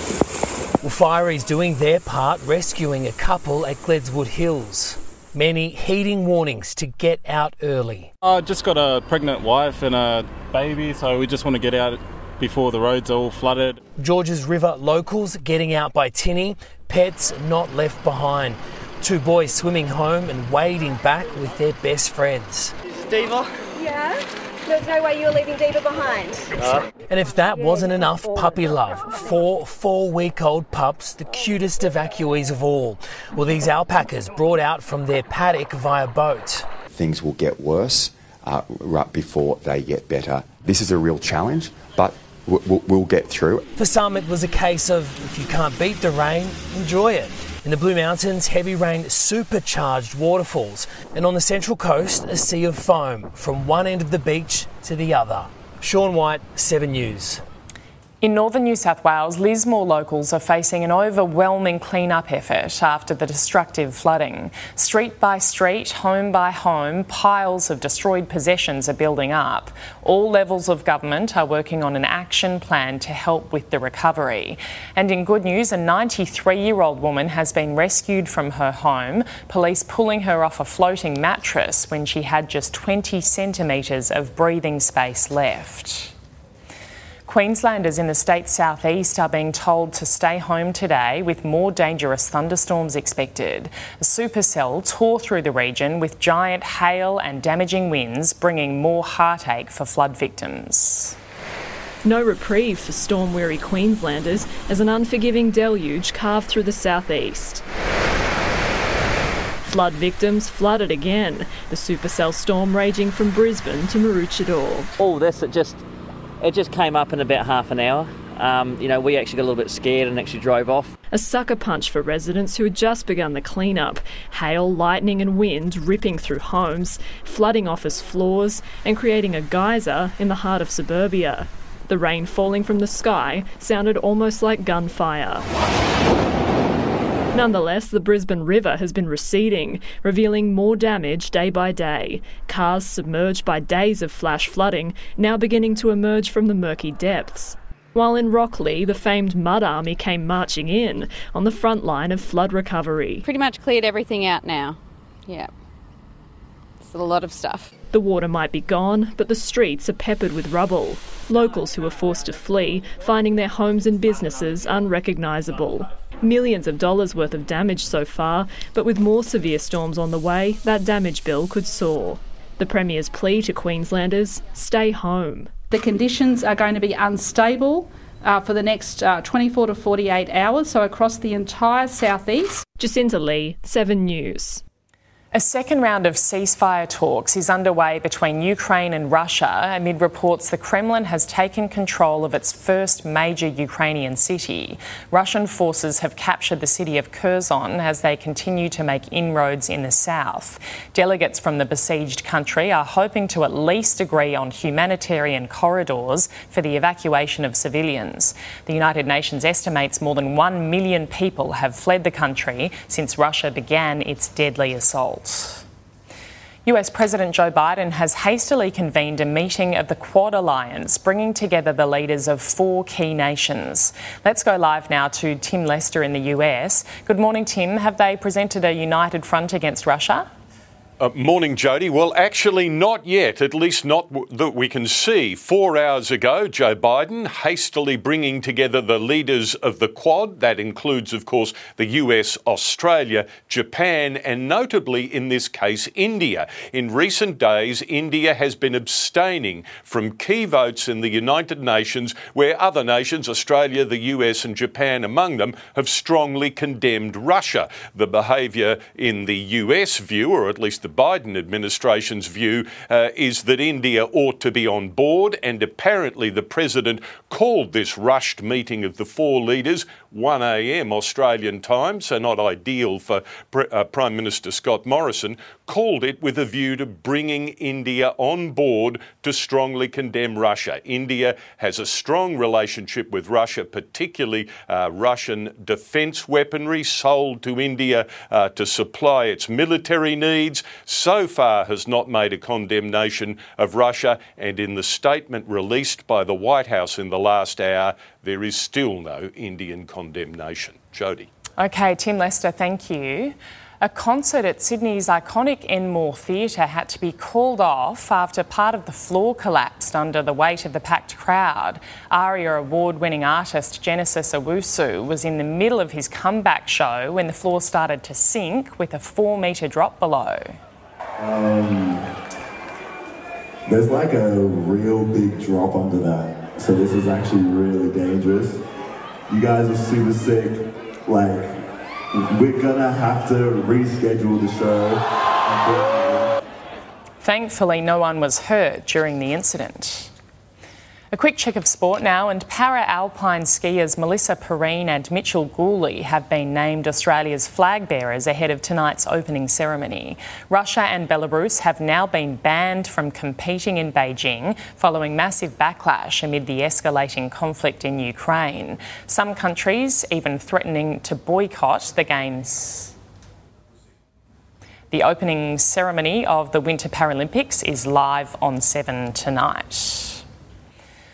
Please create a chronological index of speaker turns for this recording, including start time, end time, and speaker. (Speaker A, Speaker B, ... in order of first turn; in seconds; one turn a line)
Speaker A: 0.8-8.1
Speaker B: 8.2-13.8
Speaker A: 14.0-22.7
Speaker C: 23.8-24.1
Speaker C: 24.6-26.4
Speaker A: 27.1-36.7
Speaker D: 36.9-43.6
Speaker A: 43.8-57.4
Speaker E: 58.2-86.1
Speaker E: 87.2-101.2
Speaker F: 102.0-107.6
Speaker F: 109.6-114.9
Speaker G: 115.0-115.8
Speaker G: 116.4-120.9
Speaker F: 121.1-135.5
Speaker F: 137.3-153.2
Speaker H: 153.3-155.5
Speaker G: 153.5-154.2
Speaker H: 156.8-157.7
Speaker F: 157.9-175.5
Speaker I: 175.7-182.6
Speaker F: 182.8-184.6
Speaker E: 185.3-215.6
Speaker E: 216.6-230.3
Speaker J: 231.0-301.3
Speaker E: 301.6-320.5
Speaker K: 321.2-322.1
Speaker K: 323.7-328.6
Speaker K: 329.3-331.6
Speaker K: 332.1-336.3
Speaker E: 337.2-340.1
Speaker E: 341.1-362.9
Speaker E: 364.9-370.2